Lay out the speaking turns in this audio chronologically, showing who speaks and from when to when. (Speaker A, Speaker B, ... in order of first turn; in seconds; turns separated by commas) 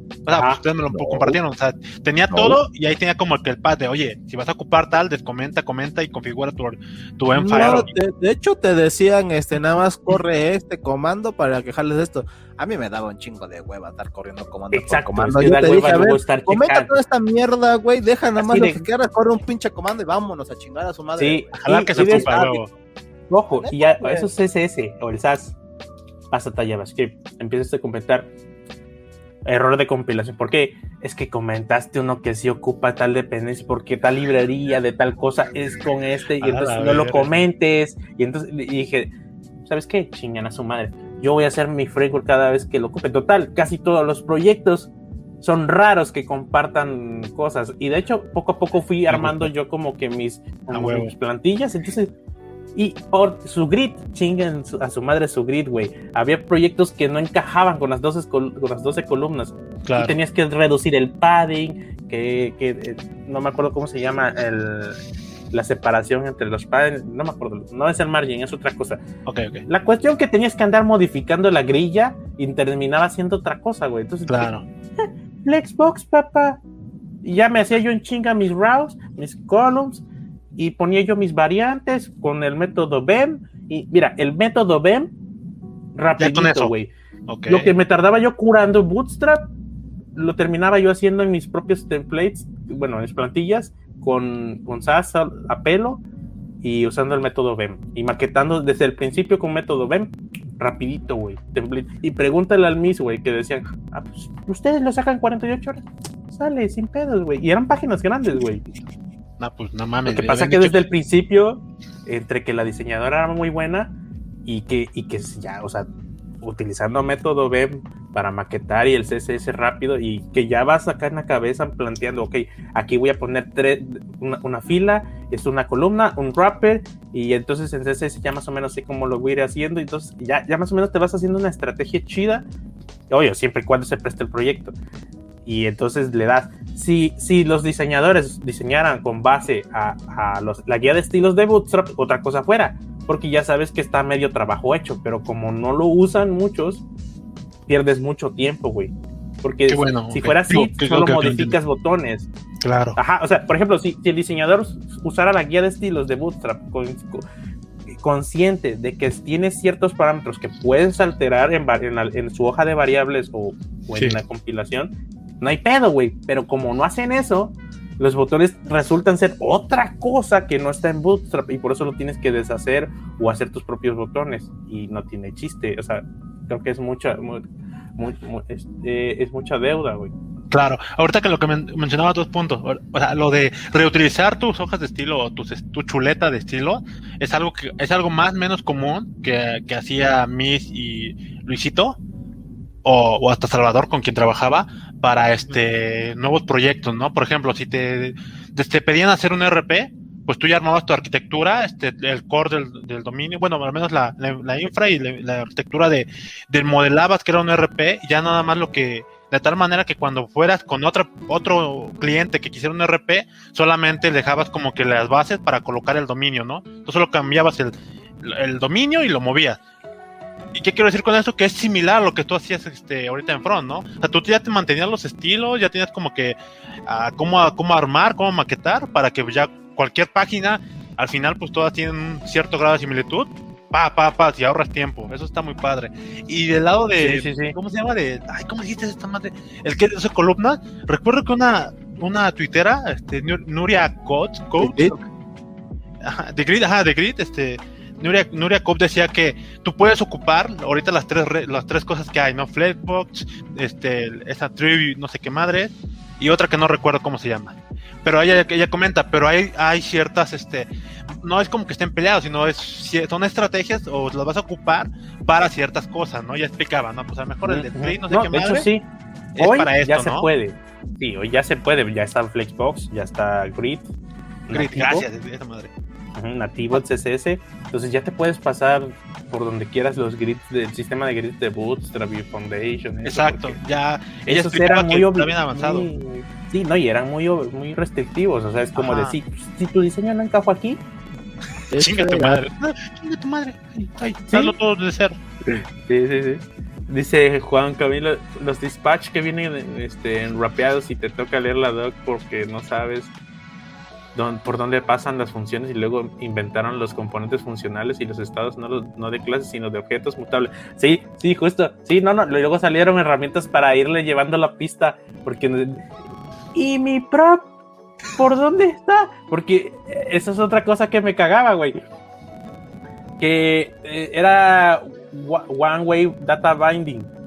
Speaker A: 0.3-7.9, Speaker B: 0.3-0.6, Speaker C: 0.9-1.4, Speaker C: 2.3-2.6, Speaker C: 7.3-22.4, Speaker B: 7.6-7.8, Speaker B: 14.7-16.9, Speaker B: 18.4-18.9, Speaker B: 21.2-22.7, Speaker A: 21.5-22.6, Speaker B: 23.3-25.6, Speaker C: 23.5-24.3, Speaker B: 26.3-28.3, Speaker B: 29.4-39.1, Speaker A: 36.4-37.4, Speaker B: 39.6-52.1, Speaker A: 49.1-49.5, Speaker A: 50.7-51.1, Speaker B: 52.8-65.0, Speaker A: 59.9-60.2, Speaker B: 65.5-69.0, Speaker A: 69.3-69.7, Speaker B: 69.7-76.6, Speaker A: 74.3-74.6, Speaker B: 77.2-85.1, Speaker B: 86.0-86.9, Speaker A: 86.2-86.7, Speaker A: 87.3-87.7, Speaker B: 87.5-89.5, Speaker B: 90.2-96.0, Speaker B: 96.6-108.7, Speaker A: 109.4-110.8, Speaker B: 110.1-115.9, Speaker B: 116.4-132.5, Speaker B: 133.1-134.7, Speaker B: 135.5-146.8, Speaker B: 147.7-152.3, Speaker A: 149.7-151.6, Speaker A: 152.6-153.0, Speaker B: 153.0-157.2, Speaker B: 158.0-177.4, Speaker A: 163.9-164.2, Speaker B: 178.0-180.1, Speaker A: 180.5-192.0, Speaker A: 192.8-219.6, Speaker A: 220.5-245.0, Speaker B: 237.0-237.6, Speaker C: 244.6-244.9, Speaker A: 246.0-268.7, Speaker B: 267.4-273.9, Speaker A: 269.4-270.3, Speaker B: 274.5-275.1, Speaker A: 274.5-275.7, Speaker B: 276.2-283.6, Speaker A: 283.0-285.9, Speaker B: 284.3-290.8, Speaker A: 288.8-289.2, Speaker C: 291.7-292.4, Speaker A: 291.7-295.2, Speaker B: 294.3-294.6, Speaker B: 295.5-303.1, Speaker B: 304.1-315.8, Speaker B: 316.5-317.5, Speaker B: 318.1-321.8, Speaker B: 323.2-327.1